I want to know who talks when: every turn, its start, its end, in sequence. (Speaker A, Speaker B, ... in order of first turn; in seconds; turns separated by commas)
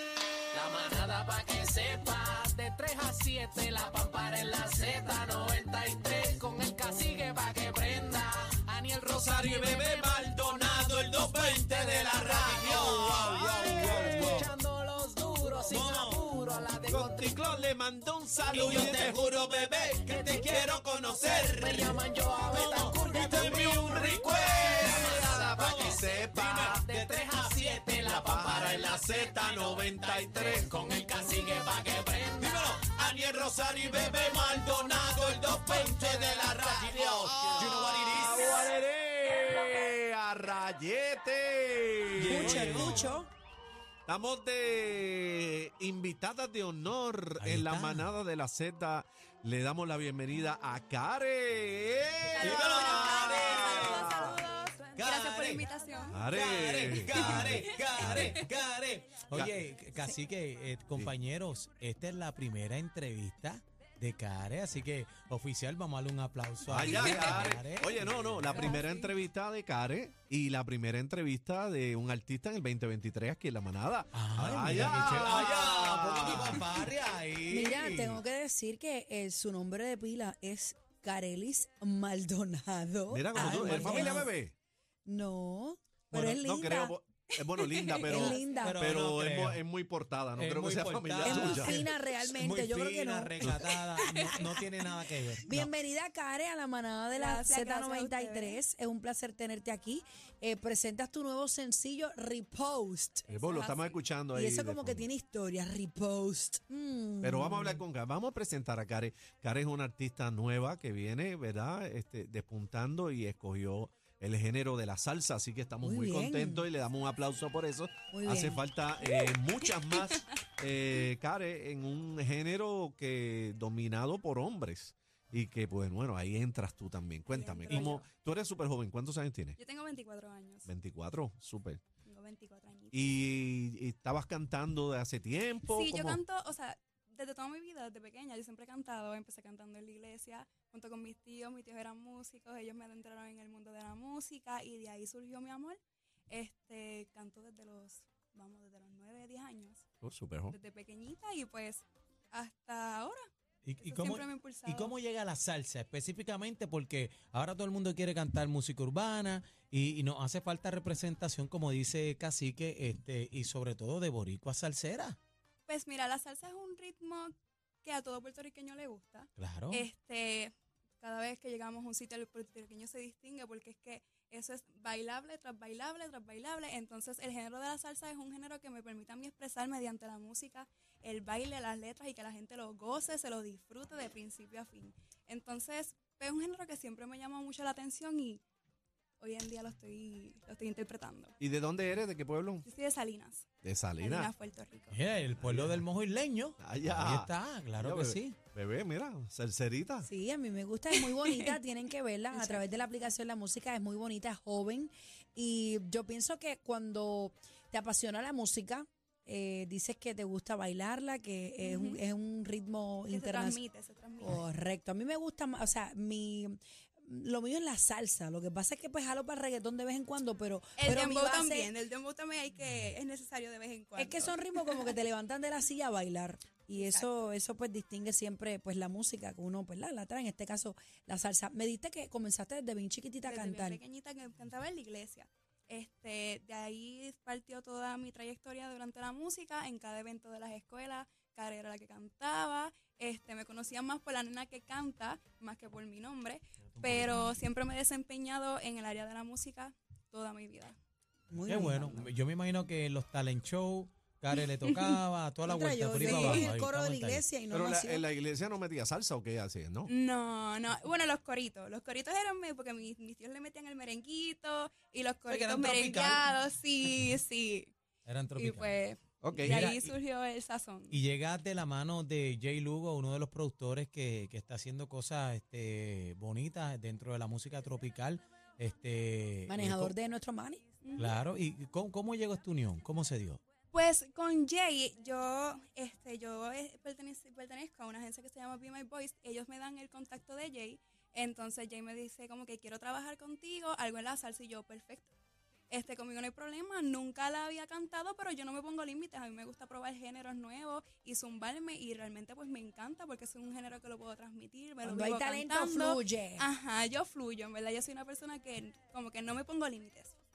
Speaker A: 0.5-17.3, Speaker B: 9.1-14.5, Speaker C: 14.0-14.3, Speaker B: 15.7-16.3, Speaker B: 16.8-26.9, Speaker A: 18.5-38.7, Speaker B: 27.9-30.9, Speaker B: 32.4-43.1, Speaker D: 42.2-43.3, Speaker C: 42.2-43.1, Speaker B: 44.1-54.4, Speaker C: 47.4-48.1, Speaker E: 52.3-56.3, Speaker C: 52.4-54.3, Speaker C: 54.9-55.7, Speaker B: 56.1-58.4, Speaker C: 56.3-68.8, Speaker E: 57.0-58.5, Speaker B: 59.3-59.6, Speaker B: 66.7-76.8, Speaker E: 66.8-67.4, Speaker E: 68.5-69.1, Speaker C: 74.1-78.2, Speaker D: 77.5-84.3, Speaker B: 83.1-84.5, Speaker C: 83.3-84.3, Speaker D: 85.1-87.0, Speaker B: 86.1-91.8, Speaker E: 87.4-88.7, Speaker D: 88.0-88.8, Speaker C: 88.6-89.6, Speaker C: 90.4-95.7, Speaker D: 91.2-94.6, Speaker B: 93.4-93.7, Speaker E: 94.0-94.6, Speaker D: 95.4-103.3, Speaker E: 97.1-98.6, Speaker B: 103.3-105.1, Speaker E: 103.4-104.0, Speaker D: 104.3-107.8, Speaker B: 107.2-129.6, Speaker D: 115.8-116.7, Speaker D: 118.1-118.7, Speaker E: 119.1-119.3, Speaker E: 127.3-128.1, Speaker E: 129.6-130.7, Speaker B: 130.7-131.8, Speaker E: 132.0-133.2, Speaker B: 132.9-136.2, Speaker E: 135.6-149.8, Speaker B: 150.0-150.6, Speaker E: 150.5-153.3, Speaker C: 153.6-165.2, Speaker E: 153.8-154.9, Speaker E: 165.7-188.4, Speaker C: 169.4-169.9, Speaker E: 189.2-191.4, Speaker B: 191.4-192.7, Speaker E: 192.6-193.5, Speaker B: 193.6-194.3, Speaker E: 194.0-195.0, Speaker C: 194.9-198.4, Speaker B: 195.4-195.8, Speaker B: 196.6-200.1, Speaker D: 200.0-213.6, Speaker E: 201.0-201.6, Speaker E: 202.3-202.9, Speaker E: 211.6-212.0, Speaker E: 213.1-214.4, Speaker D: 214.2-221.7, Speaker E: 220.8-224.9, Speaker D: 224.0-233.8, Speaker E: 226.7-227.1, Speaker E: 233.2-250.8, Speaker C: 246.8-247.2, Speaker D: 251.3-252.1, Speaker C: 251.4-257.3, Speaker E: 254.3-255.0, Speaker D: 255.4-258.1, Speaker E: 256.0-256.5, Speaker B: 257.5-259.9, Speaker E: 259.9-267.7, Speaker C: 265.3-266.2, Speaker C: 268.1-268.8, Speaker E: 268.4-271.0, Speaker B: 269.2-269.9, Speaker C: 269.4-269.9, Speaker C: 270.9-279.9, Speaker D: 279.5-280.6, Speaker E: 280.8-281.2, Speaker C: 281.0-283.4, Speaker E: 283.7-295.1, Speaker E: 295.7-310.2, Speaker D: 304.8-306.5